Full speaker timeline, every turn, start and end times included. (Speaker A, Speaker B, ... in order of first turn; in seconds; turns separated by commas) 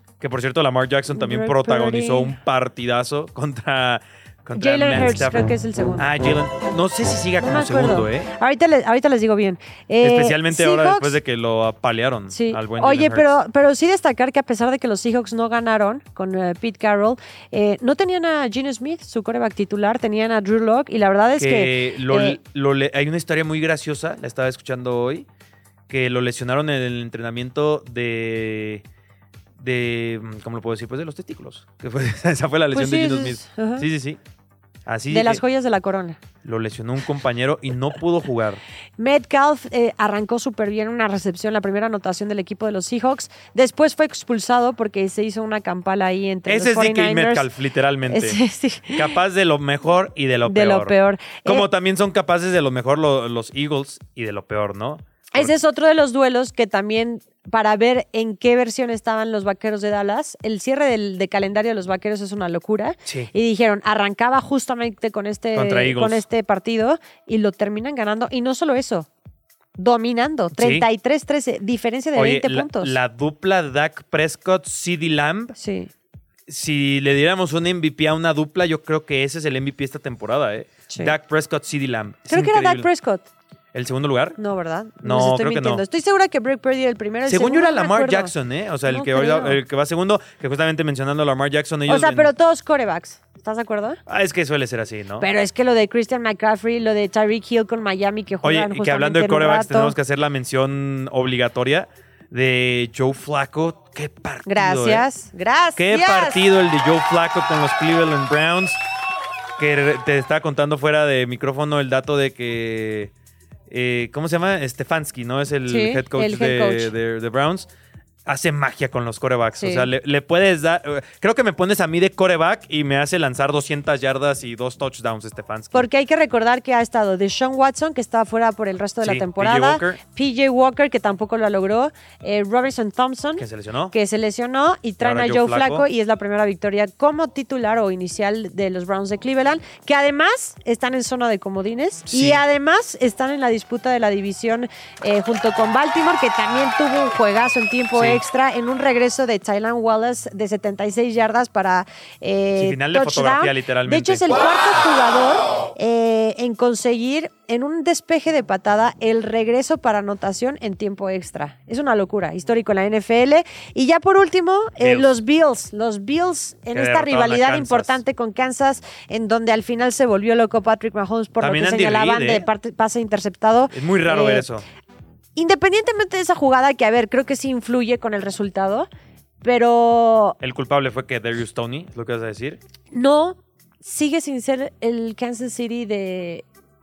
Speaker A: 0.2-8.3, Speaker B: 1.1-2.3, Speaker B: 4.5-6.1, Speaker B: 7.4-11.2, Speaker A: 10.0-13.3, Speaker B: 12.3-22.4, Speaker A: 21.4-25.2, Speaker A: 25.9-28.8, Speaker A: 29.6-34.2, Speaker B: 32.7-33.8, Speaker A: 34.9-35.4, Speaker B: 35.1-36.2, Speaker A: 36.4-38.6, Speaker B: 39.0-47.5, Speaker A: 46.5-55.5, Speaker B: 48.1-49.1, Speaker B: 50.5-51.7, Speaker B: 55.3-69.1, Speaker A: 65.5-66.2, Speaker B: 69.8-73.0, Speaker A: 70.5-70.8, Speaker A: 72.1-75.5, Speaker B: 75.6-75.9, Speaker A: 76.5-82.9, Speaker B: 82.3-83.3, Speaker A: 83.7-84.4, Speaker B: 84.4-88.3, Speaker A: 85.0-85.8, Speaker A: 87.2-92.3, Speaker B: 88.9-89.6, Speaker B: 91.9-94.0, Speaker A: 94.1-95.3, Speaker B: 95.2-99.9, Speaker A: 98.4-105.1, Speaker B: 104.5-106.4, Speaker A: 105.8-108.8, Speaker A: 109.6-113.1, Speaker A: 113.7-117.7, Speaker B: 115.7-116.9, Speaker A: 118.2-125.8, Speaker B: 119.6-119.9, Speaker B: 125.7-174.5, Speaker A: 129.0-130.0, Speaker A: 133.4-133.9, Speaker A: 135.0-135.8, Speaker A: 142.1-142.4, Speaker A: 147.9-148.2, Speaker A: 152.6-154.4, Speaker A: 164.8-165.1, Speaker A: 166.7-168.0, Speaker A: 171.4-172.4, Speaker A: 173.7-174.6, Speaker B: 175.3-178.9, Speaker B: 179.4-180.3, Speaker A: 180.4-182.6, Speaker B: 182.9-186.4